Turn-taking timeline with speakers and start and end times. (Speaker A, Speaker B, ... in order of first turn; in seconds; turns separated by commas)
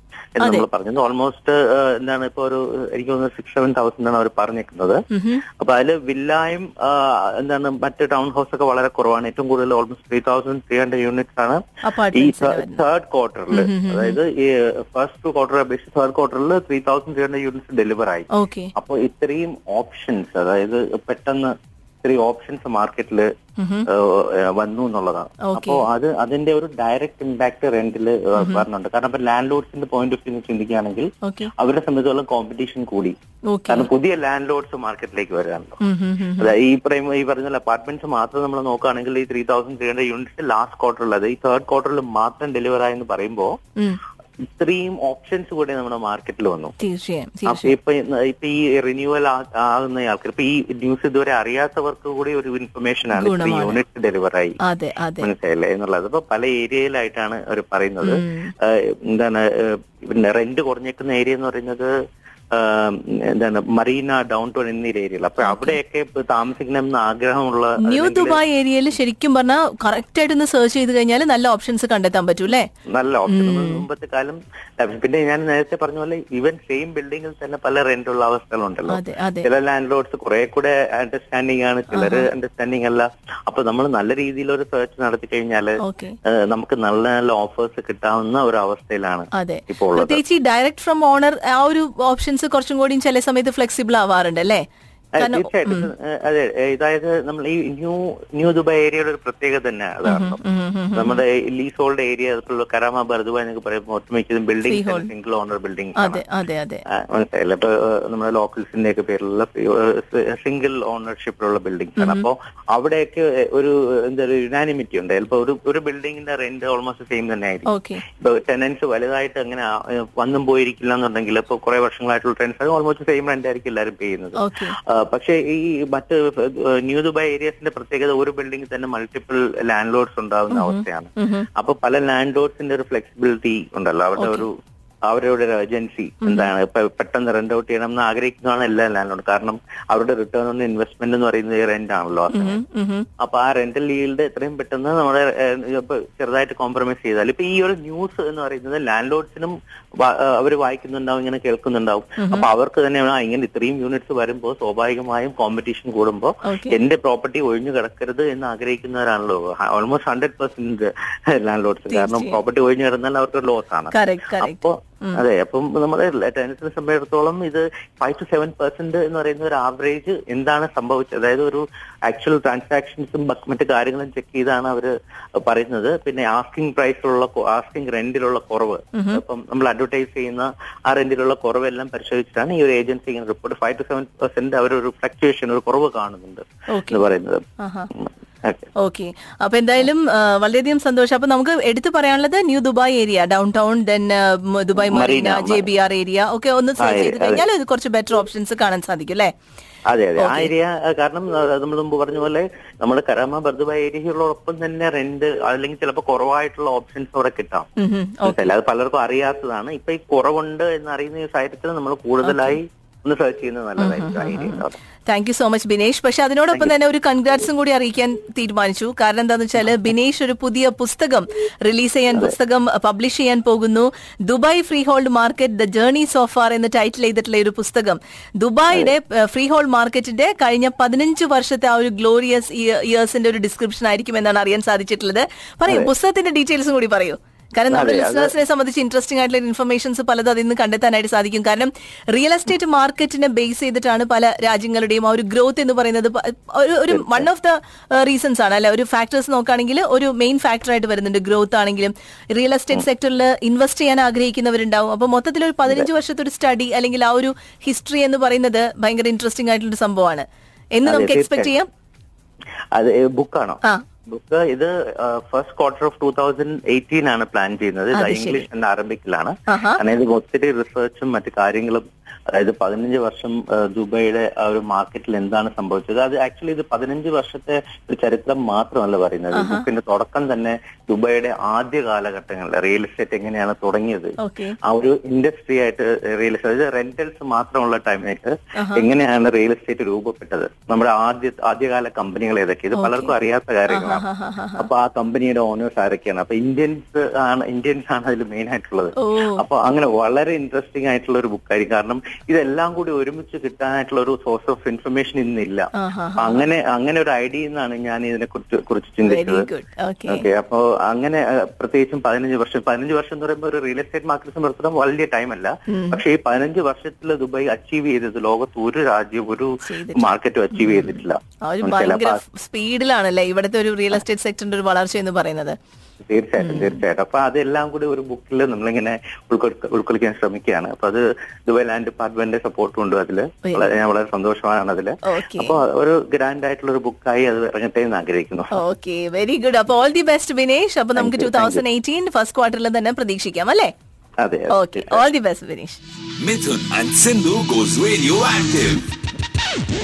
Speaker A: 0.4-5.0, Speaker B: 0.4-0.7, Speaker B: 5.1-5.4, Speaker A: 5.6-11.6, Speaker B: 11.8-12.8, Speaker A: 12.1-23.3, Speaker B: 13.5-14.2, Speaker B: 18.3-18.7, Speaker B: 23.6-23.9, Speaker A: 23.9-33.1, Speaker B: 25.4-25.8, Speaker B: 28.4-28.6, Speaker B: 31.2-31.5, Speaker B: 33.5-33.9, Speaker A: 33.7-35.8, Speaker B: 35.8-36.5, Speaker A: 36.4-43.5, Speaker A: 44.5-46.8, Speaker B: 46.8-47.7, Speaker A: 47.5-54.6, Speaker B: 53.1-53.8, Speaker B: 54.6-55.3, Speaker A: 55.2-61.9, Speaker B: 58.0-58.5, Speaker A: 62.5-68.4, Speaker B: 65.4-65.8, Speaker B: 67.8-72.7, Speaker A: 72.9-85.7, Speaker B: 73.3-73.8, Speaker B: 78.9-79.5, Speaker B: 81.9-82.3, Speaker B: 85.8-86.2, Speaker A: 86.3-90.2, Speaker B: 89.3-94.6, Speaker A: 95.2-100.4, Speaker B: 95.2-95.9, Speaker B: 100.0-101.2, Speaker A: 100.9-106.2, Speaker B: 104.6-105.1, Speaker B: 106.0-106.8, Speaker A: 106.9-134.5, Speaker B: 112.0-112.3, Speaker B: 117.7-118.0, Speaker B: 124.4-124.7, Speaker B: 130.5-131.5, Speaker B: 134.2-134.4, Speaker A: 135.1-142.6, Speaker B: 136.2-136.5, Speaker B: 142.3-143.1, Speaker A: 143.2-187.4, Speaker B: 152.2-152.5, Speaker B: 156.4-156.8, Speaker B: 161.9-162.4, Speaker B: 163.9-165.2, Speaker B: 178.9-179.2, Speaker B: 186.7-187.1, Speaker B: 187.6-187.9, Speaker A: 188.4-188.7, Speaker B: 188.8-199.3, Speaker A: 194.8-195.7, Speaker A: 196.8-197.4, Speaker A: 199.9-207.7, Speaker B: 200.2-200.5, Speaker B: 207.8-208.5, Speaker A: 208.2-214.8, Speaker B: 212.2-212.6, Speaker B: 213.8-261.7, Speaker A: 235.7-235.9, Speaker A: 237.7-238.3, Speaker A: 246.9-247.3, Speaker A: 260.8-261.5, Speaker A: 262.7-284.1, Speaker B: 267.9-268.4, Speaker B: 269.5-269.8, Speaker B: 279.3-279.7, Speaker B: 284.2-284.6, Speaker A: 284.6-294.0, Speaker B: 288.6-288.9, Speaker B: 292.7-293.1, Speaker B: 293.7-294.7, Speaker A: 294.6-309.5, Speaker B: 299.0-299.4, Speaker B: 305.7-306.5, Speaker B: 309.0-310.3, Speaker A: 310.1-322.2, Speaker B: 315.7-316.0, Speaker B: 319.6-325.6, Speaker A: 326.1-338.6, Speaker B: 326.4-326.8, Speaker B: 333.4-333.8, Speaker B: 335.0-335.6, Speaker B: 338.5-343.7, Speaker A: 340.9-341.6, Speaker A: 344.2-345.0, Speaker B: 344.5-345.8, Speaker C: 346.2-348.8